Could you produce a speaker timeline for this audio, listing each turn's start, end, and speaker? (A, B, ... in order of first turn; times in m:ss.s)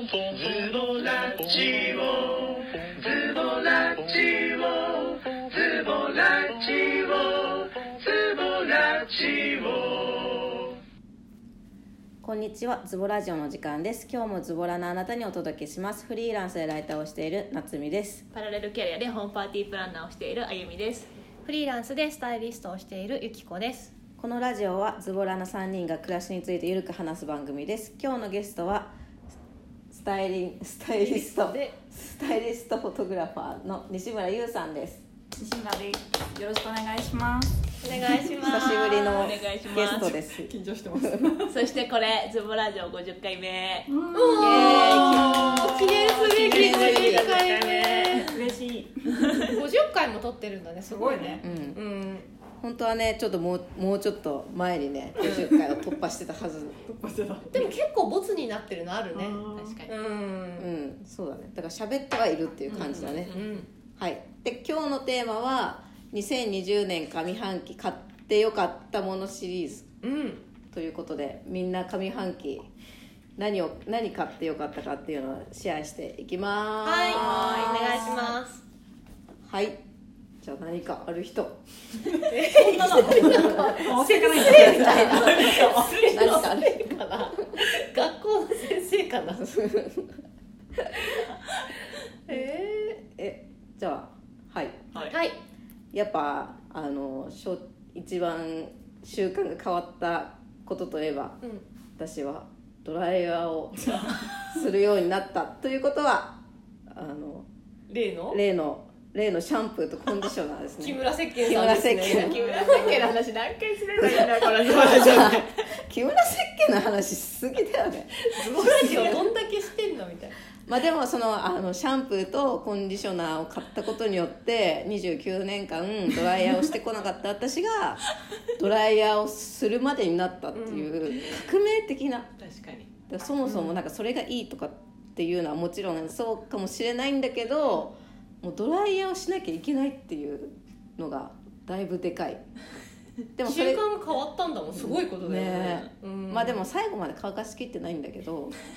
0:00.5-0:02.3 A
0:03.3-0:04.5 A
0:05.9-0:06.2 A
0:08.5-0:10.1 A
0:12.2-0:18.2 B
0:18.3-0:21.1 C
0:21.4-0:23.9 D
0:24.2-0:28.9 B
0:29.9-0:35.0 B
0:30.9-0:31.8 D
0:35.4-0:38.4 E
0:37.8-0:39.2 D
0:38.4-0:40.5 B
0:39.0-0:40.2 C
0:40.4-0:41.7 E
0:41.5-0:43.9 C
0:43.9-0:46.4 E
0:44.1-0:48.4 D
0:44.4-0:45.5 B
0:45.0-0:45.4 C
0:46.4-0:48.4 C
0:46.5-0:47.3 B
0:48.3-0:49.6 E
0:49.5-0:52.3 D
0:50.8-0:51.4 E
0:51.4-0:51.8 B
0:52.6-0:56.8 B
0:55.2-0:56.0 E
0:56.9-0:57.8 E
0:57.5-1:00.7 D
0:59.1-0:59.8 E
0:59.5-0:59.9 C
1:00.6-1:03.4 B
1:02.7-1:03.6 C
1:02.8-1:03.7 D
1:04.0-1:09.9 B
1:10.0-1:10.5 D
1:10.7-1:12.7 B
1:13.4-1:18.2 B
1:16.8-1:18.6 D
1:17.1-1:18.1 C
1:19.4-1:19.8 B
1:20.4-1:21.6 B
1:22.1-1:26.2 E
1:22.3-1:29.5 D
1:23.2-1:23.8 B
1:24.5-1:27.5 B
1:29.3-1:30.2 B
1:30.8-1:31.1 B
1:32.3-1:33.0 D
1:32.3-1:34.9 B
1:34.9-1:35.2 C
1:35.0-1:35.4 D
1:35.9-1:41.4 B
1:42.0-1:47.5 B
1:43.8-1:44.5 E
1:47.9-1:48.4 D
1:48.3-1:52.4 B
1:50.8-1:53.2 D
1:52.1-1:55.5 C
1:52.5-1:52.8 E
1:54.0-1:58.1 B
1:58.3-2:00.4 D
1:58.7-1:59.2 B
2:00.7-2:08.1 B
2:08.6-2:12.3 B
2:10.5-2:11.0 D
2:12.4-2:12.9 C
2:13.1-2:22.4 B
2:23.4-2:23.8 B
2:23.4-2:26.6 D
2:24.7-2:28.6 B